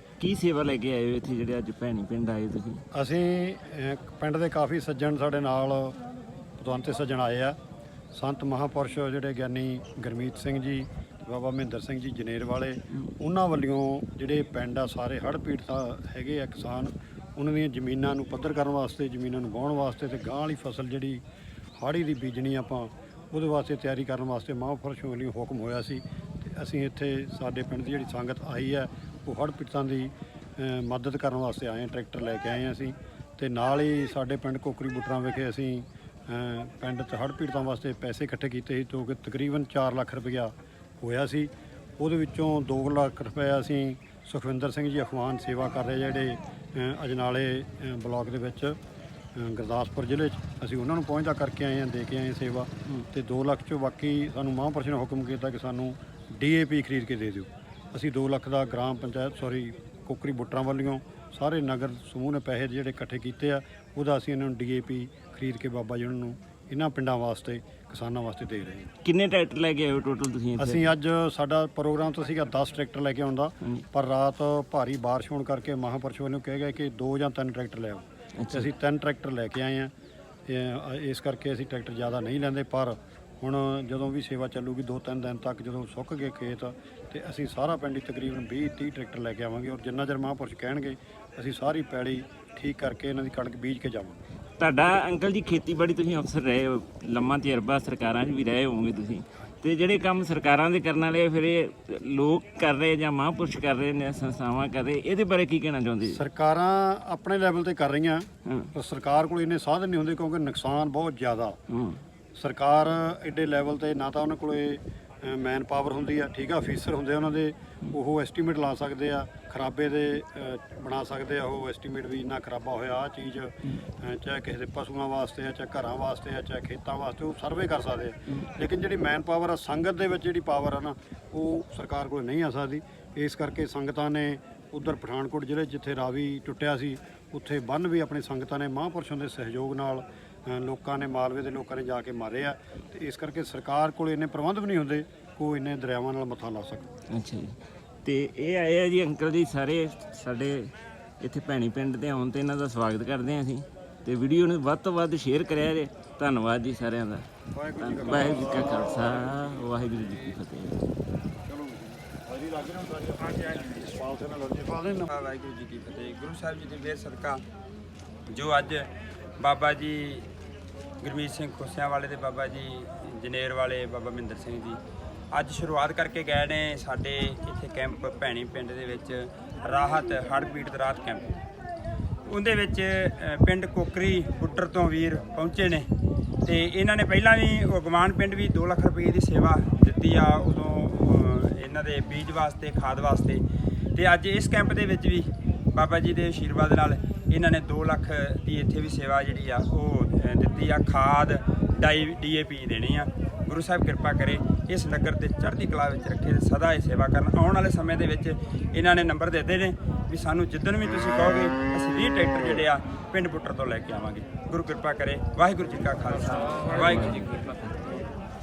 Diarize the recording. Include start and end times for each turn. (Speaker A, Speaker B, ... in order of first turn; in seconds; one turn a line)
Speaker A: 0.2-2.8
Speaker B: 2.9-6.0
Speaker B: 6.6-7.6
Speaker B: 8.1-21.2
Speaker B: 21.8-48.8
Speaker B: 49.3-68.9
Speaker A: 69.0-70.9
Speaker B: 70.6-79.9
Speaker A: 78.4-78.7
Speaker B: 80.5-94.2
Speaker A: 94.6-106.2
Speaker B: 106.1-111.6
Speaker A: 108.5-108.7
Speaker A: 111.7-112.0
Speaker B: 112.3-146.9
Speaker A: 147.1-157.3
Speaker B: 157.5-159.4
Speaker A: 157.8-160.8
Speaker B: 161.4-165.1
Speaker C: 165.1-167.4
Speaker C: 168.3-170.3
Speaker C: 171.0-174.8
Speaker C: 175.3-181.3
Speaker C: 182.2-185.9
Speaker C: 186.4-193.4
Speaker C: 193.9-217.4
Speaker A: 216.9-217.4